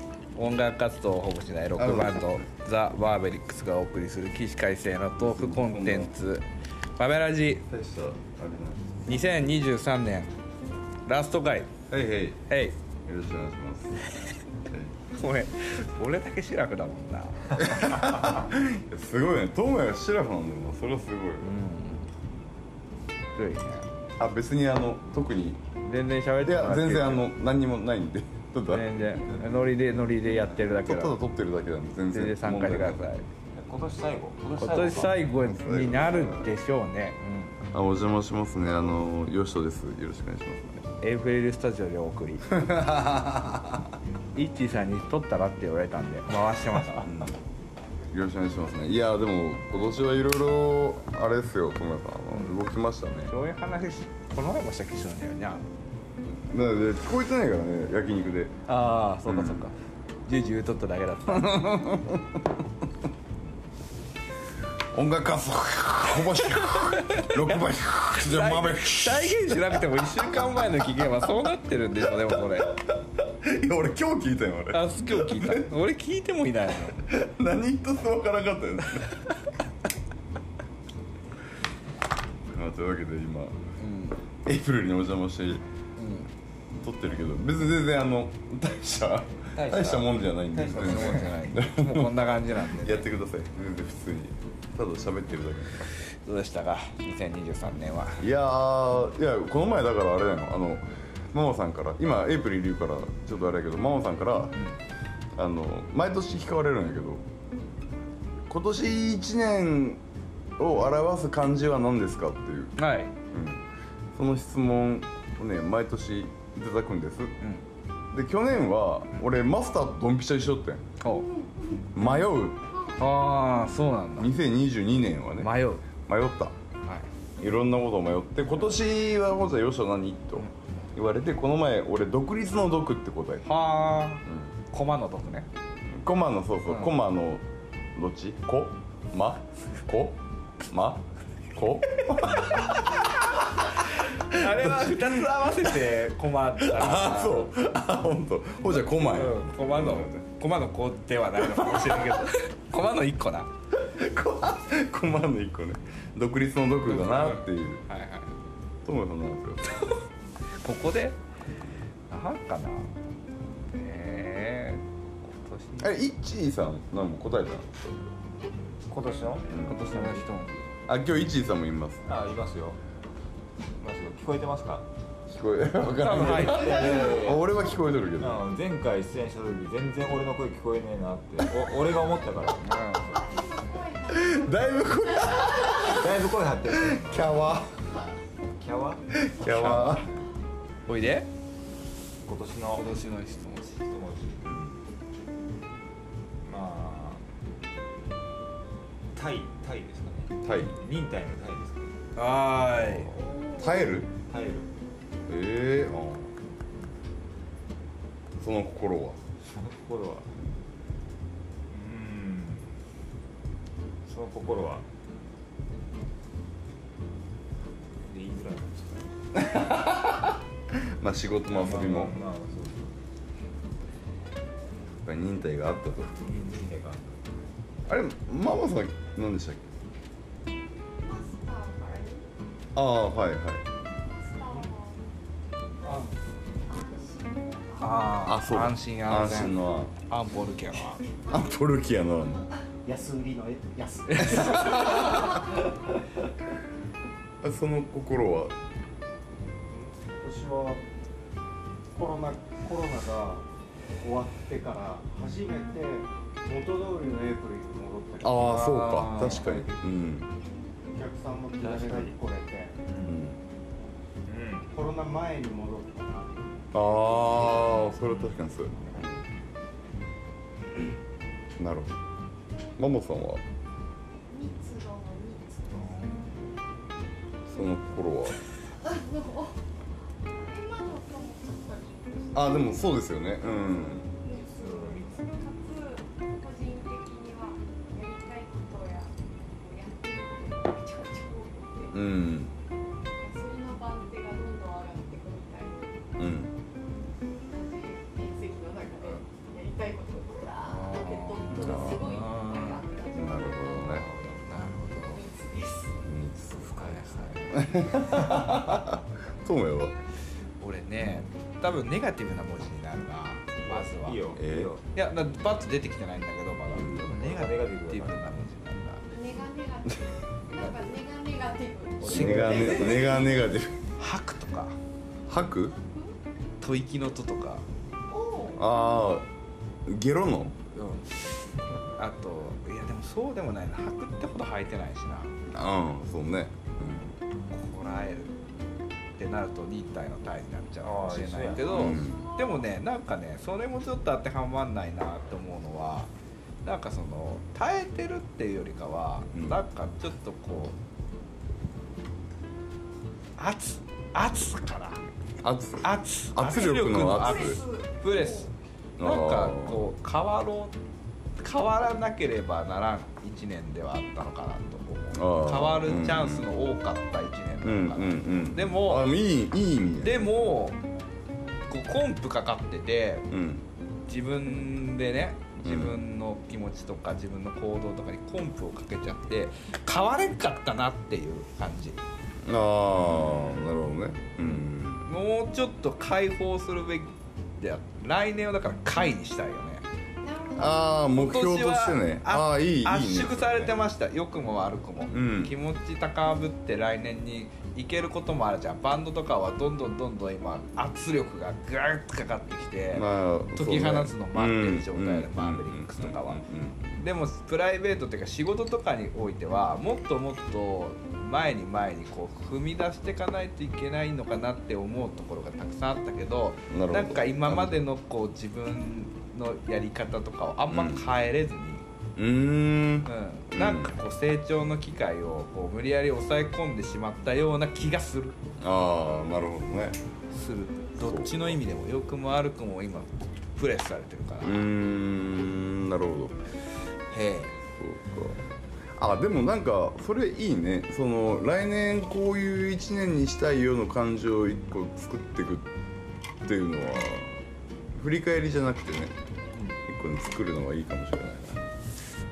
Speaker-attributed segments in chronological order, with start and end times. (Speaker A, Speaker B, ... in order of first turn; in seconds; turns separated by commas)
Speaker A: 0.3-6.5, Speaker B: 1.8-2.5, Speaker B: 5.2-6.1, Speaker A: 7.0-7.7, Speaker B: 7.7-9.2, Speaker A: 9.1-10.3, Speaker A: 11.1-11.7, Speaker B: 11.9-12.4, Speaker A: 12.5-12.8, Speaker B: 13.1-14.0, Speaker B: 14.7-14.9, Speaker A: 15.1-18.1, Speaker B: 17.6-21.5, Speaker A: 21.4-22.1, Speaker A: 23.4-23.9, Speaker B: 24.2-25.6, Speaker A: 25.8-27.3, Speaker B: 26.4-28.9, Speaker A: 28.7-31.2, Speaker B: 30.8-33.1, Speaker A: 32.1-33.3, Speaker C: 33.5-35.2, Speaker A: 34.6-37.6, Speaker B: 35.4-36.5, Speaker B: 37.7-40.9, Speaker A: 41.0-42.6, Speaker B: 42.5-43.9, Speaker A: 44.3-47.1, Speaker B: 47.0-47.3, Speaker B: 48.1-53.3, Speaker A: 53.3-55.7, Speaker B: 56.3-58.6, Speaker A: 58.7-59.8, Speaker B: 59.3-59.7, Speaker A: 60.3-61.9, Speaker B: 61.3-62.2, Speaker B: 64.9-70.0, Speaker A: 66.5-72.8, Speaker B: 73.3-75.7, Speaker A: 74.7-77.0, Speaker B: 77.1-79.1, Speaker B: 82.5-83.6, Speaker A: 83.8-84.2, Speaker B: 84.5-85.6, Speaker A: 86.0-86.3, Speaker B: 86.8-95.9, Speaker C: 89.5-91.4, Speaker A: 90.7-93.1, Speaker A: 96.0-98.2, Speaker B: 98.2-104.6, Speaker B: 105.4-107.2, Speaker B: 108.5-110.0, Speaker B: 110.6-112.8, Speaker A: 112.8-113.1, Speaker B: 113.3-117.4, Speaker B: 118.1-120.9, Speaker A: 121.0-121.3, Speaker B: 121.9-122.6, Speaker A: 123.0-124.3, Speaker B: 124.2-126.5, Speaker A: 125.4-125.8, Speaker B: 127.4-133.5, Speaker A: 133.4-135.5, Speaker B: 134.3-134.5, Speaker B: 135.9-143.1, Speaker A: 136.7-137.0, Speaker B: 144.2-145.5, Speaker A: 144.3-147.5, Speaker B: 146.6-150.1, Speaker A: 148.9-153.5, Speaker B: 151.4-152.2, Speaker B: 153.7-157.8, Speaker A: 156.9-158.3, Speaker B: 158.8-159.8, Speaker A: 159.7-160.0, Speaker A: 160.6-161.2, Speaker A: 162.1-162.9, Speaker A: 163.6-165.9, Speaker B: 165.8-168.1, Speaker C: 168.9-170.3, Speaker B: 169.5-169.8, Speaker A: 169.6-170.7, Speaker B: 170.9-172.0, Speaker C: 172.1-172.8, Speaker C: 173.8-174.9, Speaker B: 175.3-178.4, Speaker A: 175.9-177.1, Speaker C: 176.2-177.5, Speaker D: 176.8-177.2, Speaker C: 178.2-182.6, Speaker A: 182.6-183.2, Speaker D: 183.1-185.8, Speaker B: 184.1-186.0, Speaker C: 185.8-187.4, Speaker B: 186.7-187.9, Speaker C: 188.6-189.1, Speaker B: 189.1-190.1, Speaker A: 189.4-190.1, Speaker A: 190.9-191.3, Speaker C: 192.2-192.9, Speaker A: 192.8-193.8, Speaker C: 193.8-194.5, Speaker B: 194.4-194.8, Speaker C: 196.4-197.2, Speaker C: 199.1-201.9, Speaker B: 200.4-200.8, Speaker A: 202.2-203.1, Speaker D: 203.2-204.0, Speaker B: 203.6-204.1, Speaker C: 204.1-204.7, Speaker B: 205.3-206.3, Speaker B: 208.4-209.2, Speaker C: 209.5-210.3, Speaker C: 211.7-212.7, Speaker C: 214.1-214.9, Speaker C: 218.0-219.1, Speaker B: 219.3-222.2, Speaker C: 221.5-223.0, Speaker B: 225.0-226.2, Speaker C: 226.2-227.2, Speaker B: 227.9-229.7, Speaker D: 231.0-232.3, Speaker B: 232.8-233.6, Speaker D: 234.0-235.0, Speaker E: 235.8-236.2, Speaker D: 236.7-238.2, Speaker A: 237.8-241.0, Speaker B: 238.2-239.9, Speaker D: 241.1-241.5, Speaker B: 241.3-242.4, Speaker E: 242.8-245.4, Speaker A: 244.1-245.3, Speaker B: 244.8-245.2, Speaker B: 247.4-248.6, Speaker E: 249.7-250.8, Speaker E: 251.9-253.4, Speaker E: 254.0-258.5, Speaker B: 258.2-260.3, Speaker A: 258.4-259.7, Speaker E: 260.9-262.8, Speaker C: 261.6-262.2, Speaker C: 262.9-263.2, Speaker B: 263.0-263.4, Speaker C: 264.3-264.7, Speaker E: 264.7-267.8, Speaker B: 266.7-269.1, Speaker C: 267.6-268.1, Speaker B: 271.6-271.9, Speaker B: 272.8-273.4, Speaker D: 274.3-276.4, Speaker B: 277.5-278.4, Speaker D: 278.8-279.6, Speaker D: 280.3-282.9, Speaker B: 282.3-284.1, Speaker D: 284.2-292.1, Speaker C: 284.3-285.2, Speaker B: 291.9-292.5, Speaker D: 293.2-296.1, Speaker B: 296.2-296.5, Speaker D: 297.4-304.0, Speaker A: 300.7-302.9, Speaker B: 301.5-302.1, Speaker B: 303.1-304.1, Speaker C: 303.9-304.4, Speaker A: 304.0-305.2, Speaker D: 305.1-306.0, Speaker B: 306.0-307.0, Speaker A: 306.8-307.6, Speaker C: 306.8-307.5, Speaker B: 307.5-309.9, Speaker A: 310.6-314.3, Speaker C: 313.7-314.9, Speaker B: 314.4-314.7, Speaker A: 314.9-319.0, Speaker B: 316.7-317.1, Speaker C: 316.8-318.4, Speaker D: 319.1-323.4, Speaker C: 322.0-323.3, Speaker A: 322.0-323.2, Speaker B: 322.0-323.8, Speaker A: 324.0-324.8, Speaker B: 325.3-325.8, Speaker D: 325.7-326.1, Speaker A: 326.6-327.6, Speaker D: 328.1-328.6, Speaker B: 328.6-329.3, Speaker B: 329.9-330.6, Speaker A: 330.7-331.1, Speaker A: 331.9-335.3, Speaker B: 335.5-337.1, Speaker A: 336.9-338.3, Speaker A: 339.2-346.1, Speaker C: 340.8-341.9, Speaker B: 341.7-342.3, Speaker D: 341.9-342.6, Speaker A: 346.6-350.8, Speaker B: 349.3-349.6, Speaker A: 353.4-355.0, Speaker B: 355.4-357.6, Speaker A: 355.8-360.8, Speaker D: 357.1-358.5, Speaker B: 359.0-359.9, Speaker A: 361.4-369.1, Speaker B: 365.1-366.5, Speaker B: 367.6-370.3, Speaker A: 370.0-370.8, Speaker A: 371.7-373.3, Speaker B: 373.3-373.6, Speaker A: 374.1-382.0, Speaker B: 375.6-376.0, Speaker B: 382.4-385.1, Speaker A: 383.1-383.7, Speaker A: 385.1-389.9, Speaker D: 390.2-391.0, Speaker B: 390.6-393.7, Speaker A: 391.1-406.4, Speaker B: 395.1-395.6, Speaker B: 402.9-407.0, Speaker A: 407.0-421.9, Speaker B: 416.7-417.8, Speaker B: 420.7-421.1, Speaker B: 422.2-424.0, Speaker A: 423.1-428.4, Speaker B: 428.6-430.0, Speaker A: 430.3-434.7, Speaker B: 431.0-431.6, Speaker B: 434.4-436.4, Speaker A: 437.1-437.6, Speaker B: 437.8-438.4, Speaker B: 439.0-445.7, Speaker B: 446.4-447.4, Speaker B: 447.9-449.1, Speaker B: 449.9-451.7